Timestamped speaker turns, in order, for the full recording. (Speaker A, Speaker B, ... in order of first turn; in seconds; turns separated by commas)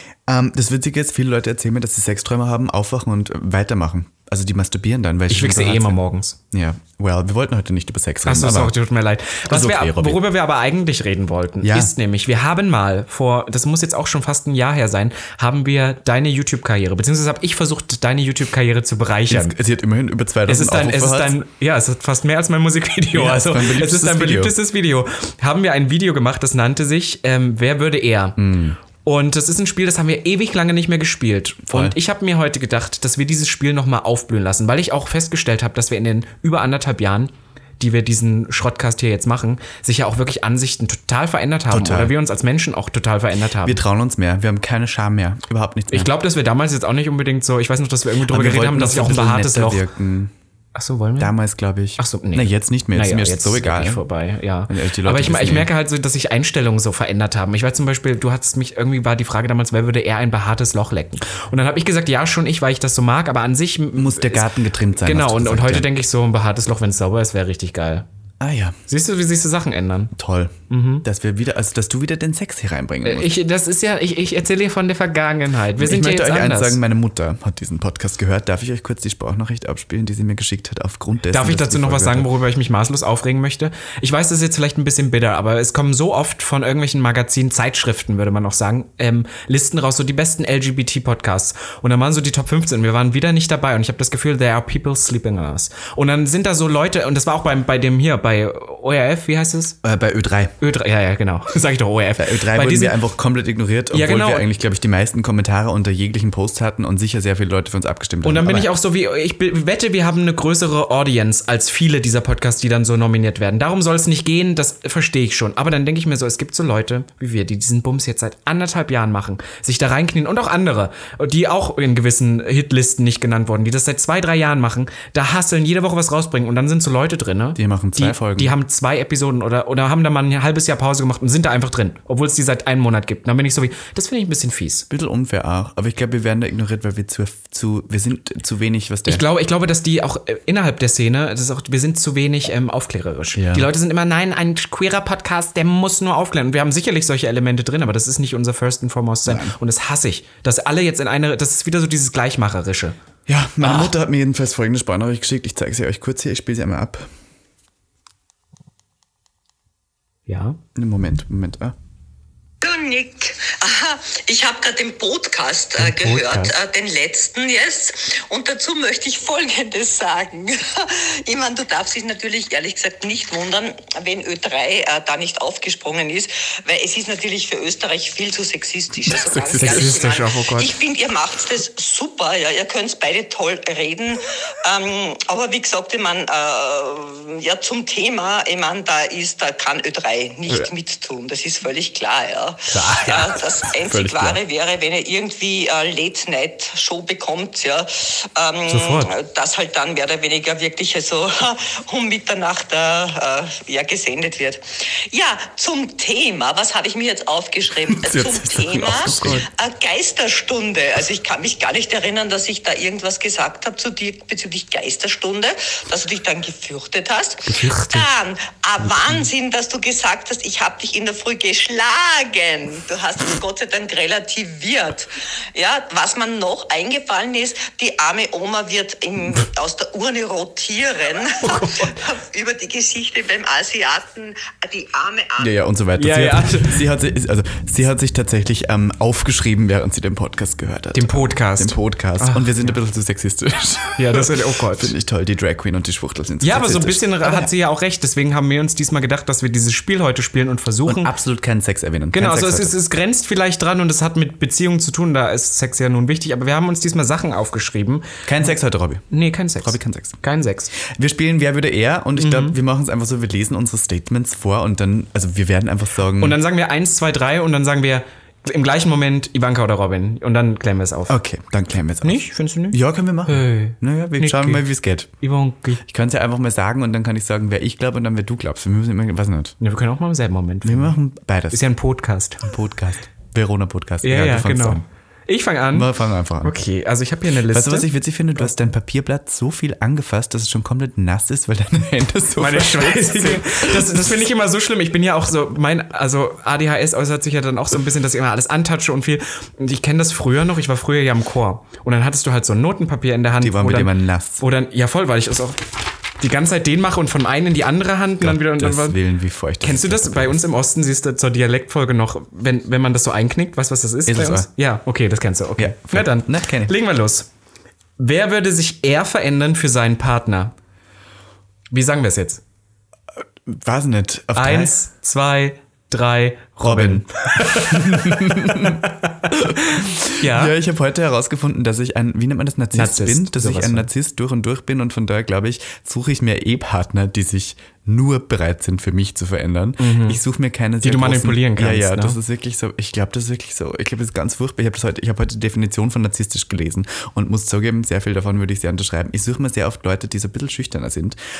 Speaker A: 0.3-6.0, Speaker B: 5.3-6.4, Speaker A: 6.5-8.7, Speaker B: 8.2-19.5, Speaker A: 9.4-10.2, Speaker A: 11.6-11.9, Speaker A: 19.3-21.4, Speaker B: 20.5-28.4, Speaker A: 23.1-24.6, Speaker A: 28.4-28.8, Speaker B: 29.0-43.8, Speaker A: 31.7-31.9, Speaker A: 41.7-42.1, Speaker A: 43.6-46.1, Speaker B: 45.9-49.8, Speaker A: 48.3-50.3, Speaker B: 50.7-51.3, Speaker A: 51.2-54.0, Speaker B: 52.0-68.0, Speaker A: 54.7-55.7, Speaker A: 64.0-65.9, Speaker A: 68.4-68.8, Speaker B: 68.9-70.1, Speaker A: 70.1-73.3, Speaker B: 70.7-71.0, Speaker B: 73.0-76.8, Speaker A: 75.8-82.3, Speaker B: 81.3-99.8, Speaker A: 99.8-100.6, Speaker B: 100.6-103.0, Speaker A: 102.2-108.7, Speaker B: 103.9-104.5, Speaker B: 108.2-134.8, Speaker A: 127.5-128.5, Speaker A: 134.9-139.2, Speaker B: 139.1-152.9, Speaker A: 143.3-143.7, Speaker A: 149.2-149.5, Speaker A: 153.3-157.1, Speaker B: 153.6-153.9, Speaker B: 160.3-160.6, Speaker A: 160.8-161.7, Speaker C: 162.6-235.5, Speaker B: 165.8-166.5, Speaker A: 179.1-180.0, Speaker B: 179.6-180.8, Speaker B: 192.7-193.4, Speaker A: 193.8-194.4, Speaker B: 198.7-199.1, Speaker A: 207.9-209.4, Speaker B: 217.5-218.0, Speaker B: 231.4-232.0, Speaker A: 235.4-247.5, Speaker B: 235.9-236.8, Speaker B: 240.9-242.7, Speaker B: 243.9-244.9, Speaker B: 246.4-251.1, Speaker A: 250.8-252.8, Speaker B: 252.1-258.2, Speaker A: 258.2-260.2, Speaker B: 259.1-260.7, Speaker A: 260.7-266.4, Speaker B: 262.1-262.6, Speaker B: 266.2-271.2, Speaker A: 271.1-275.1, Speaker B: 272.0-274.6, Speaker B: 275.2-275.8, Speaker A: 275.8-279.6, Speaker B: 279.6-280.9, Speaker A: 280.6-281.6, Speaker B: 281.5-282.4, Speaker A: 282.4-284.8, Speaker B: 284.0-285.9, Speaker A: 285.7-286.6, Speaker B: 286.4-287.9, Speaker A: 287.5-294.2, Speaker B: 292.4-309.0, Speaker A: 303.4-304.4, Speaker A: 308.2-310.4, Speaker B: 309.6-317.3, Speaker A: 314.1-314.5, Speaker A: 315.6-316.7, Speaker B: 318.0-320.5, Speaker B: 321.7-322.4, Speaker A: 323.4-324.7, Speaker B: 324.3-330.5, Speaker A: 326.6-351.2, Speaker B: 332.7-333.9, Speaker B: 339.8-340.2, Speaker B: 340.8-342.2